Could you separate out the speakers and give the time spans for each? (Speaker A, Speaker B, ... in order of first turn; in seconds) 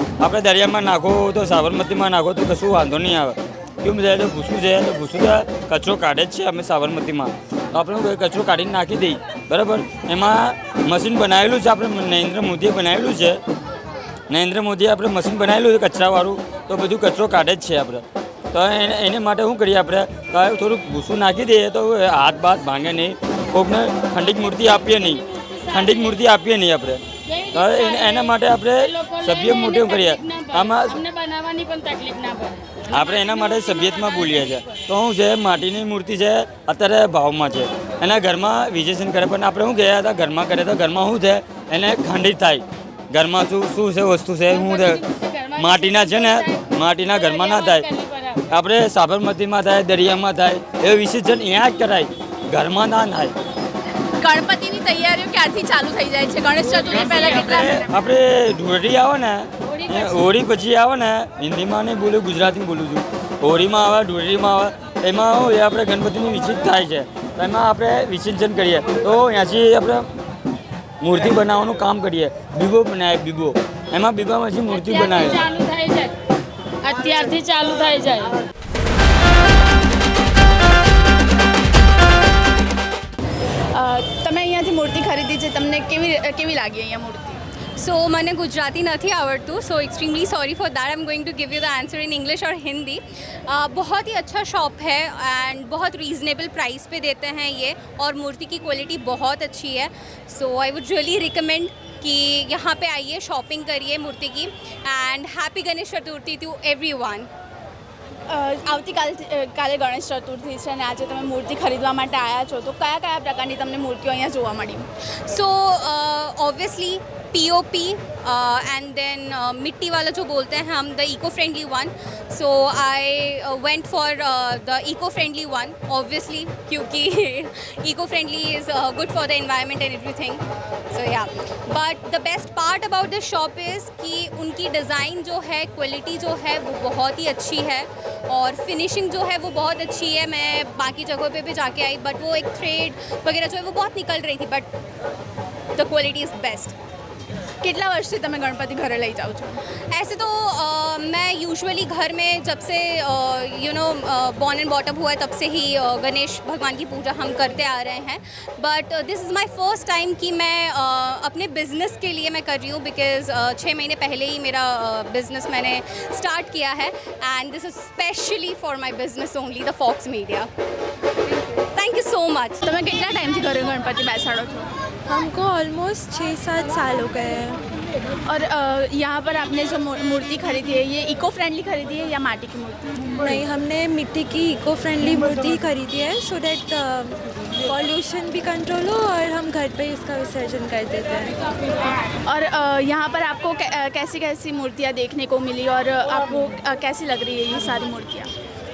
Speaker A: 0.2-13.4, 14.3-27.0, 27.5-31.0, 32.9-45.0, 45.6-47.9, 48.5-53.3, 56.8-70.1, 71.0-75.4
Speaker B: 25.0-26.2, 27.3-34.8, 44.5-48.4, 74.7-76.1, 76.8-78.4
Speaker C: 54.2-57.9, 83.7-87.4, 108.3-114.8, 147.6-149.6, 172.6-174.7, 178.3-183.1, 192.3-198.3
Speaker D: 87.8-107.3, 115.3-130.4, 130.9-144.7, 145.8-146.7, 149.9-170.5, 171.7-172.6
Speaker E: 175.1-177.6, 183.2-191.3